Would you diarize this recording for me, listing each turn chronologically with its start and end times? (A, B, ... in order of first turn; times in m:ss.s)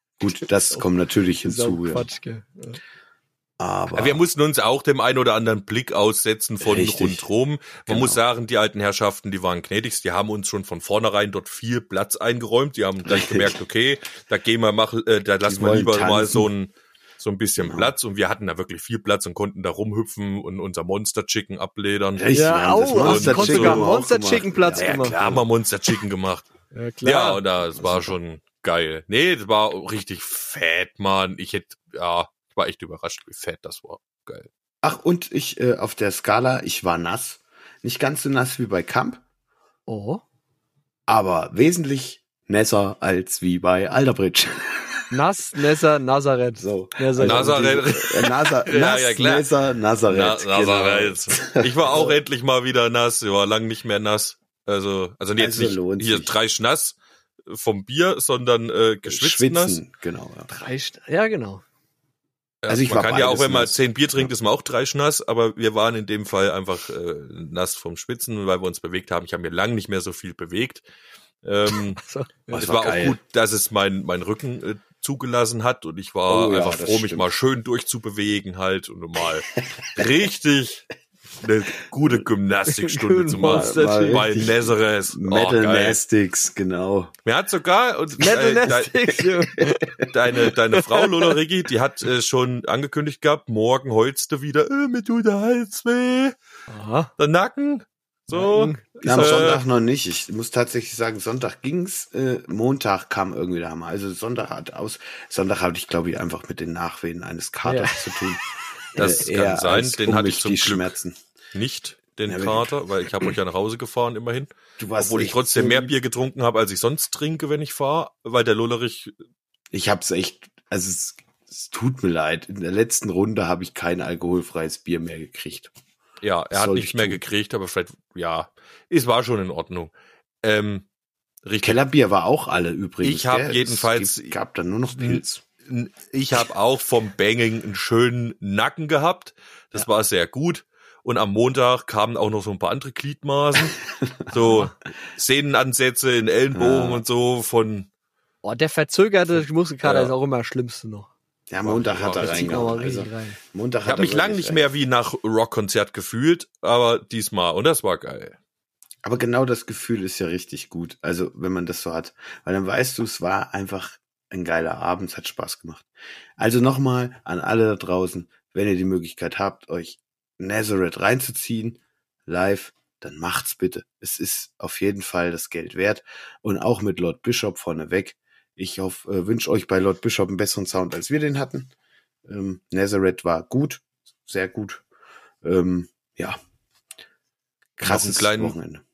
0:00.2-0:02.1 A
0:01.4-0:02.8 B
0:03.6-0:04.3 A
0:03.9-0:22.2 C
0:06.6-0:07.3 A
0:07.9-0:08.2 A
0:13.1-0:13.5 A
0:15.5-0:16.5 A
0:17.6-0:17.9 A
0:22.2-0:25.4 A
0:22.3-0:25.2 B
0:23.0-0:23.9 C
0:24.8-0:26.5 C
0:26.7-0:27.4 B
0:27.0-0:34.5 C
0:27.7-0:28.2 A
0:34.8-0:39.2 A
0:39.9-0:40.2 B
0:41.1-0:45.0 A
0:45.1-0:47.7 B
0:46.6-0:52.2 A
0:47.2-0:49.5 C
0:50.1-0:59.8 C
0:55.4-0:56.4 A
0:59.0-1:00.7 A
1:00.5-1:01.6 B
1:02.6-1:10.8 C
1:02.7-1:04.3 A
1:11.4-1:12.0 C
1:12.0-1:12.5 B
1:12.5-1:13.2 A
1:12.5-1:20.8 C
1:16.3-1:17.3 A
1:21.4-1:26.0 C
1:22.7-1:24.2 B
1:23.4-1:27.1 A
1:27.2-1:29.2 C
1:28.2-1:31.4 B
1:30.0-1:36.4 C
1:36.7-1:37.1 B
1:37.2-1:39.6 C
1:38.3-1:39.6 B
1:39.0-1:48.4 A
1:47.7-1:48.0 B
1:48.9-1:51.2 A
1:49.0-1:50.9 C
1:51.5-1:59.1 C
1:52.3-1:52.7 A
1:54.8-1:55.9 A
1:59.7-2:05.7 A
2:06.2-2:09.9 C
2:06.5-2:07.2 A
2:10.4-2:10.9 C
2:11.4-2:11.8 C
2:11.6-2:15.4 A
2:13.0-2:14.4 C
2:14.9-2:27.9 C
2:24.0-2:24.4 A
2:26.5-2:27.0 A
2:28.4-2:31.1 B
2:29.8-2:30.1 C
2:31.5-2:34.7 A
2:31.6-2:32.7 C
2:32.2-2:33.4 B
2:33.8-2:38.4 C
2:39.0-2:45.9 A
2:46.4-3:01.7 A
3:02.3-3:04.8 A
3:05.4-3:06.4 A
3:07.8-3:08.8 A
3:07.8-3:08.6 C